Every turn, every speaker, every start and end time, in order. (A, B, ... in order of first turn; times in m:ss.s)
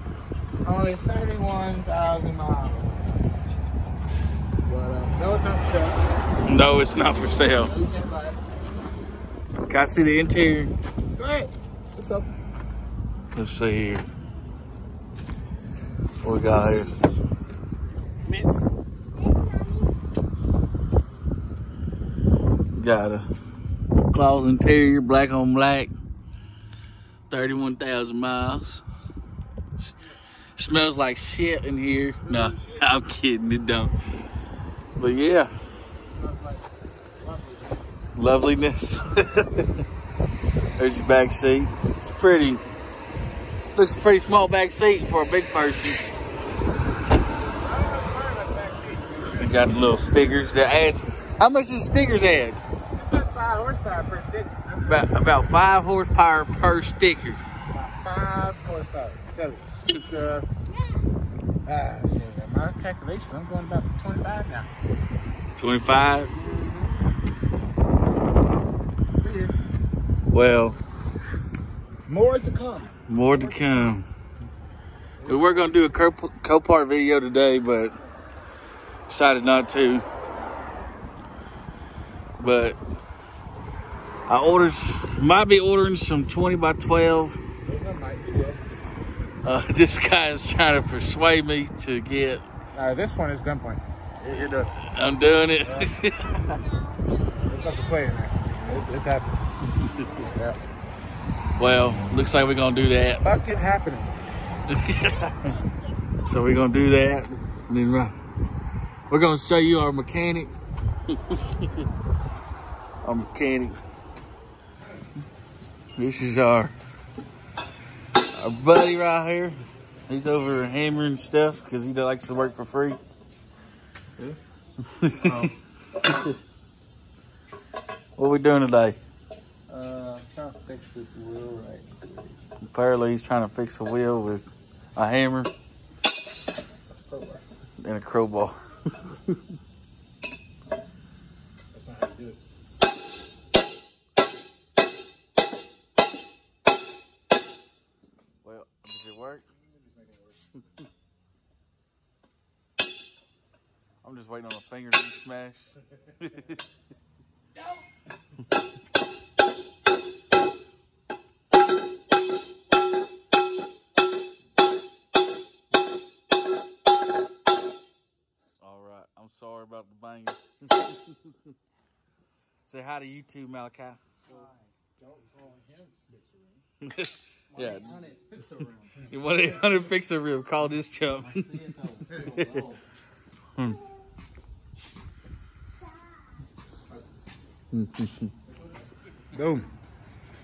0:00.6-0:03.0 A
0:04.6-0:06.1 A
0:06.4-0:07.7 B
0:07.6-0:08.4 A
0:09.7-0:10.7 B
0:11.2-0:12.3 A
0:13.3-0:14.0 B
0:16.2-0:16.9 B
0:16.6-0:17.0 A
0:18.2-0:18.6 A
0:22.7-0:23.3 B
0:24.1-0:25.9 B
0:27.3-0:28.8 B
0:30.6-0:33.9 B
0:32.2-0:32.8 A
0:35.0-0:35.5 B
0:36.1-0:36.7 A
0:37.2-0:38.0 A
0:38.2-0:39.8 B
0:40.8-0:42.6 B
0:43.7-0:46.1 B
0:47.6-0:49.7 A
0:49.3-0:52.6 B
0:52.9-0:55.2 A
0:54.8-0:57.4 B
0:57.7-1:00.5 A
1:01.6-1:04.7 A
1:05.6-1:06.3 B
1:06.3-1:07.0 A
1:09.2-1:09.5 A
1:10.3-1:10.8 B
1:12.1-1:13.8 A
1:13.1-1:14.0 B
1:15.2-1:15.8 A
1:15.2-1:18.0 B
1:19.1-1:20.0 B
1:22.4-1:22.8 B
1:24.3-1:27.4 B
1:27.6-1:28.6 A
1:29.4-1:32.4 B
1:32.7-1:34.7 A
1:34.3-1:36.6 B
1:35.6-1:35.9 A
1:37.3-1:39.4 A
1:39.8-1:40.2 B
1:40.1-1:40.6 A
1:41.6-1:43.2 B
1:43.2-1:44.1 A
1:44.7-1:45.6 B
1:46.2-1:48.1 B
1:49.1-1:50.5 B
1:51.1-1:51.8 B
1:53.0-1:53.8 B
1:56.0-1:56.7 B
1:58.3-1:59.6 B
2:00.1-2:03.0 B
2:04.8-2:06.3 B
2:08.2-2:09.0 B
2:09.7-2:11.9 C
2:12.6-2:15.5 B
2:17.1-2:17.4 A
2:17.8-2:19.4 B
2:21.7-2:22.4 A
2:28.4-2:29.4 B
2:29.6-2:30.4 A
2:34.0-2:36.6 B
2:48.6-2:51.5 B
2:52.6-2:54.0 B
2:54.3-2:56.6 A
2:56.8-2:58.0 B
2:57.5-2:59.0 C
2:59.0-3:02.7 B
3:01.4-3:02.8 C
3:07.7-3:08.3 B
3:09.3-3:09.7 A